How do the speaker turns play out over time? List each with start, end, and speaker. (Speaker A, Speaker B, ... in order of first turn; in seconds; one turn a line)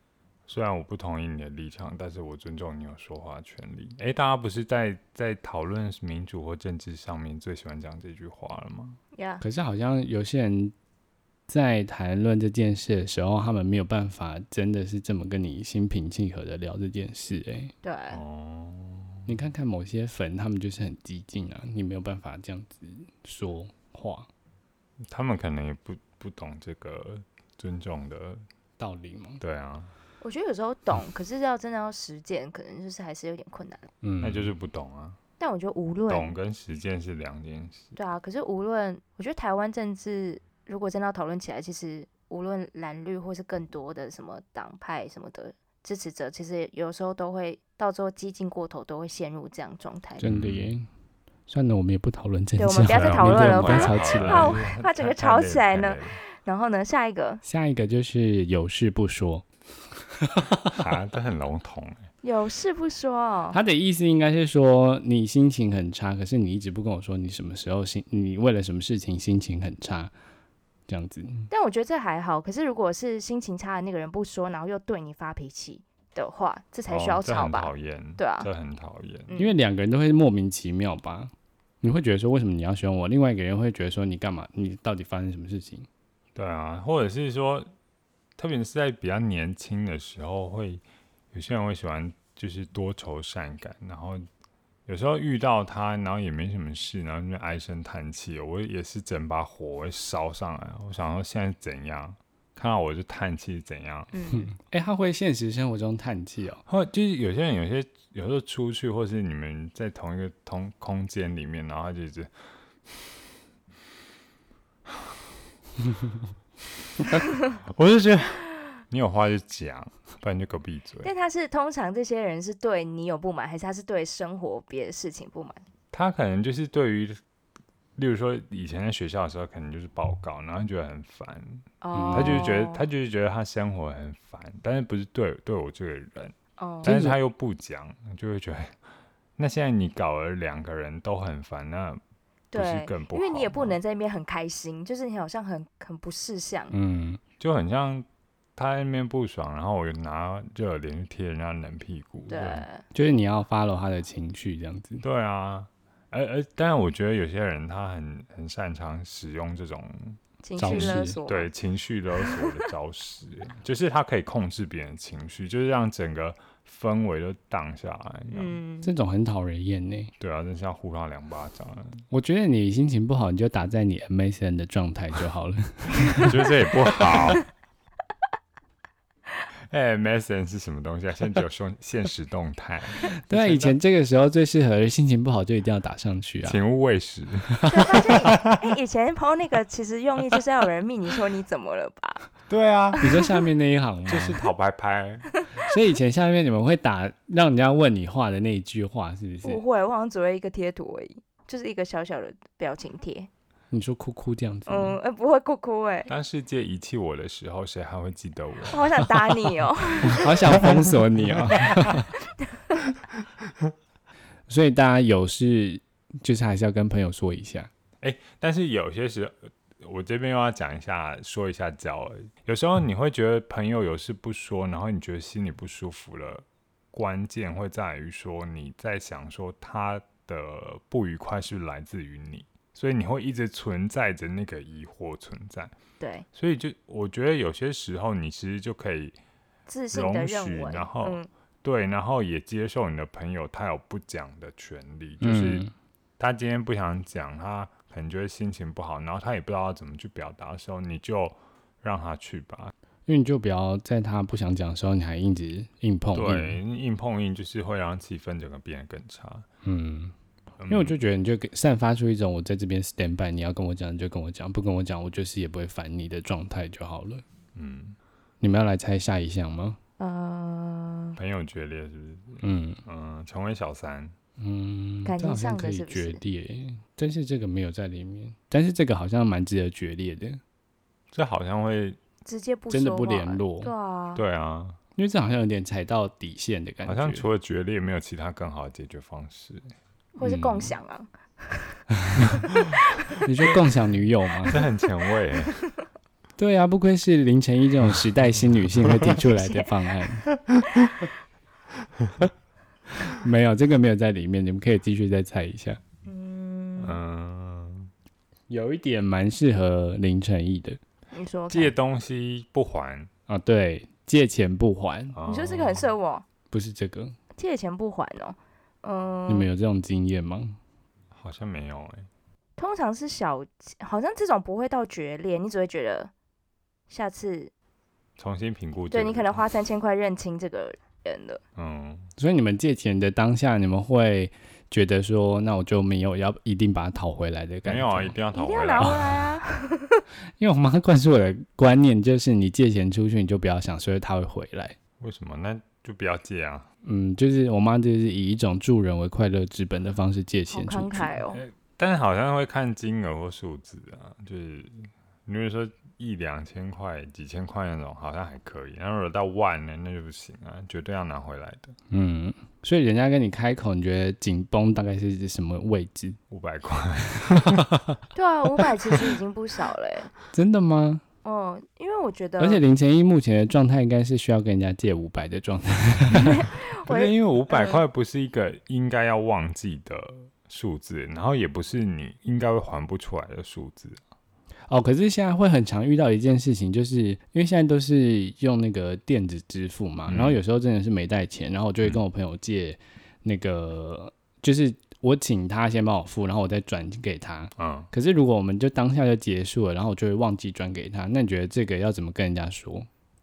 Speaker A: 0.5-9.0
Speaker B: 9.1-9.4
Speaker C: 9.4-10.7
Speaker C: 11.5-17.7
Speaker B: 17.8-18.2
Speaker A: 18.1-19.3
Speaker C: 19.3-24.3
Speaker A: 25.1-28.4
Speaker C: 28.8-29.4
Speaker A: 29.4-29.9
Speaker B: 30.2-33.9
Speaker C: 34.0-34.5
Speaker A: 34.2-35.2
Speaker B: 35.4-36.3
Speaker A: 36.1-38.0
Speaker B: 38.0-50.3
Speaker C: 50.2-50.9
Speaker A: 50.2-50.7
Speaker C: 51.5-54.6
Speaker B: 52.6-57.4
Speaker A: 52.9-56.2
Speaker C: 57.4-59.5
Speaker C: 60.2-60.8
Speaker A: 60.7-62.1
Speaker B: 62.2-63.6
Speaker C: 63.5-70.1
Speaker C: 70.9-71.5
Speaker B: 71.5-78.5
Speaker A: 76.9-79.3
Speaker C: 79.3-85.9
Speaker A: 86.3-87.7
Speaker A: 88.4-94.3
Speaker A: 94.9-104.1
Speaker B: 104.1-104.5
Speaker C: 104.3-106.6
Speaker A: 106.7-112.3
Speaker A: 117.6-121.1
Speaker B: 121.0-125.6
Speaker A: 125.9-127.2
Speaker A: 128.0-138.8
Speaker B: 131.8-132.9
Speaker C: 131.9-132.5
Speaker B: 136.6-136.9
Speaker C: 136.8-137.2
Speaker A: 139.4-142.0
Speaker B: 142.5-146.7
Speaker A: 142.5-143.8
Speaker C: 146.7-147.2
Speaker A: 147.4-152.7
Speaker B: 152.3-152.8
Speaker C: 152.9-155.0
Speaker A: 155.0-168.6
Speaker B: 160.4-161.5
Speaker C: 160.6-161.2
Speaker B: 162.2-162.7
Speaker B: 168.3-168.9
Speaker C: 168.8-170.1
Speaker A: 170.2-172.1
Speaker C: 172.1-176.3
Speaker A: 176.1-177.4
Speaker A: 179.7-183.8
Speaker C: 183.3-186.6
Speaker A: 186.4-188.7
Speaker C: 187.6-188.1
Speaker B: 187.7-192.3
Speaker A: 192.5-193.0
Speaker B: 193.0-193.4
Speaker C: 193.0-194.4
Speaker A: 194.1-195.3
Speaker C: 195.6-199.6
Speaker B: 199.4-203.3
Speaker C: 203.7-205.0
Speaker B: 204.7-206.1
Speaker A: 206.1-211.9
Speaker B: 208.7-210.4
Speaker C: 210.1-212.1
Speaker B: 212.2-212.9
Speaker A: 213.4-213.7
Speaker C: 214.5-217.7
Speaker A: 218.0-235.8
Speaker B: 236.0-236.3
Speaker A: 236.3-239.2
Speaker B: 239.7-241.3
Speaker A: 239.9-245.6
Speaker C: 245.2-245.7
Speaker A: 246.2-252.7
Speaker C: 253.1-256.6
Speaker A: 256.1-259.5
Speaker C: 259.6-260.1
Speaker A: 260.6-261.0
Speaker C: 260.7-267.2
Speaker A: 267.6-268.0
Speaker C: 268.4-269.8
Speaker B: 270.0-271.2
Speaker A: 271.2-274.1
Speaker C: 272.4-272.8
Speaker C: 274.4-280.4
Speaker B: 275.1-276.2
Speaker A: 281.1-282.0
Speaker B: 282.2-284.2
Speaker C: 282.7-283.7
Speaker A: 284.1-284.8
Speaker C: 285.0-287.3
Speaker A: 286.9-289.7
Speaker B: 290.2-291.8
Speaker C: 290.2-290.7
Speaker C: 292.0-292.5
Speaker B: 292.4-293.1
Speaker C: 293.2-294.6
Speaker A: 294.5-295.6
Speaker C: 296.4-300.3
Speaker B: 299.4-299.9
Speaker C: 303.0-305.8
Speaker B: 306.1-307.0
Speaker A: 306.8-307.9
Speaker C: 308.5-310.8
Speaker B: 311.1-311.7
Speaker A: 311.5-313.1
Speaker C: 313.3-315.2
Speaker A: 315.1-315.9
Speaker B: 315.3-316.2
Speaker C: 316.5-317.2
Speaker B: 317.4-319.5
Speaker C: 319.3-320.6
Speaker A: 321.1-322.1
Speaker B: 322.6-326.1
Speaker B: 326.9-327.5
Speaker A: 328.2-329.4
Speaker B: 328.9-331.4
Speaker A: 331.6-332.1
Speaker C: 332.2-338.1
Speaker A: 337.6-339.3
Speaker B: 338.3-340.0
Speaker C: 340.4-344.8
Speaker A: 345.0-346.7
Speaker C: 346.8-351.1
Speaker B: 350.5-351.4
Speaker A: 351.3-361.8
Speaker C: 361.9-366.2
Speaker A: 366.3-367.7
Speaker C: 367.3-368.0
Speaker B: 368.1-370.1
Speaker C: 370.3-371.0
Speaker B: 371.2-372.6
Speaker C: 372.4-376.4
Speaker B: 376.1-377.8
Speaker A: 376.9-384.0
Speaker C: 384.7-402.9
Speaker A: 390.1-390.4
Speaker A: 397.6-397.9